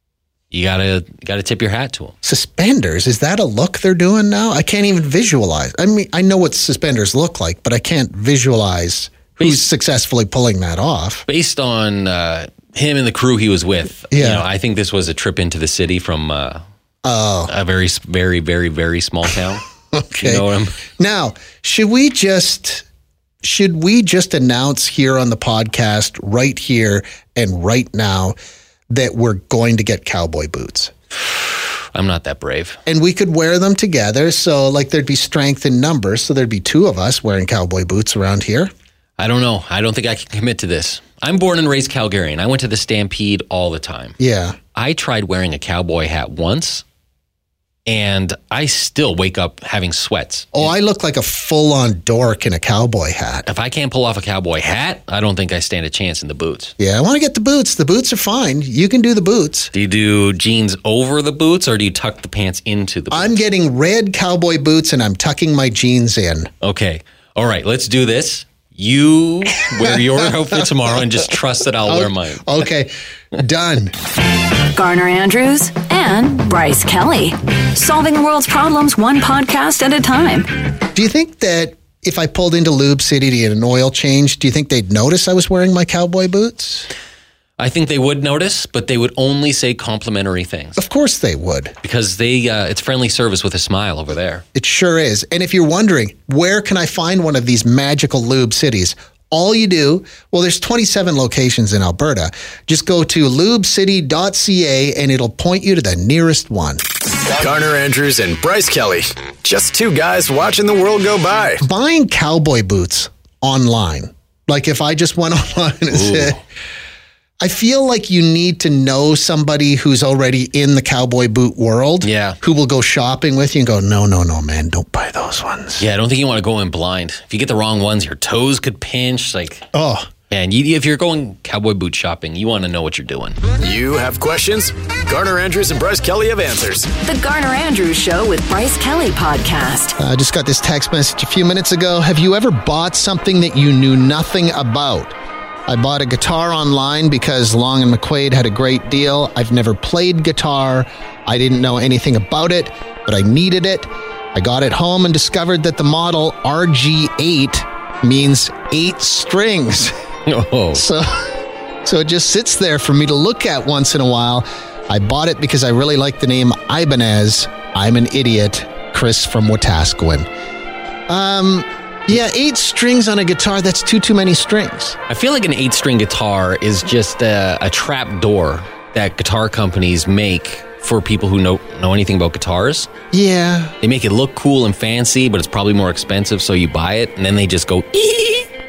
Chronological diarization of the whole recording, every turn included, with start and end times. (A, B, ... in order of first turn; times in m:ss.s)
0:00.5-0:02.1 A
0:02.2-0:11.3 B
0:09.4-0:09.7 A
0:11.3-0:16.6 A
0:14.1-0:14.5 B
0:17.0-0:17.5 B
0:17.5-0:19.6 A
0:19.9-0:20.5 B
0:20.2-0:20.8 A
0:21.0-0:22.9 B
0:23.4-0:28.4 B
0:28.9-0:30.9 B
0:31.9-0:32.8 A
0:32.9-0:38.7 B
0:39.2-0:44.2 A
0:44.2-0:44.6 B
0:44.7-0:46.8 A
0:47.9-0:50.7 A
0:50.5-0:53.5 B
0:53.5-0:56.7 A
0:56.8-0:59.7 B
0:59.7-1:03.4 A
1:03.1-1:06.5 B
1:06.6-1:12.5 A
1:09.8-1:10.6 B
1:11.9-1:13.9 B
1:14.7-1:20.5 C
1:20.9-1:26.9 B
1:27.6-1:30.8 A
1:30.8-1:31.8 B
1:31.8-1:34.4 A
1:34.6-1:46.8 B
1:47.3-1:51.6 D
1:51.6-1:56.4 B
1:55.9-1:56.4 A
1:57.4-2:05.8 B
2:02.0-2:02.4 A
2:05.8-2:09.6 A
2:09.7-2:10.1 B
2:10.3-2:13.4 A
2:13.6-2:16.9 D
2:17.0-2:20.0 C
2:20.0-2:25.2 B
2:25.7-2:40.0 B
2:40.3-2:40.8 A
2:40.7-2:41.3 B
2:41.8-2:50.3 B
2:51.1-2:55.0 B
2:55.1-3:02.9 A
3:03.1-3:03.8 B
3:03.8-3:08.5 A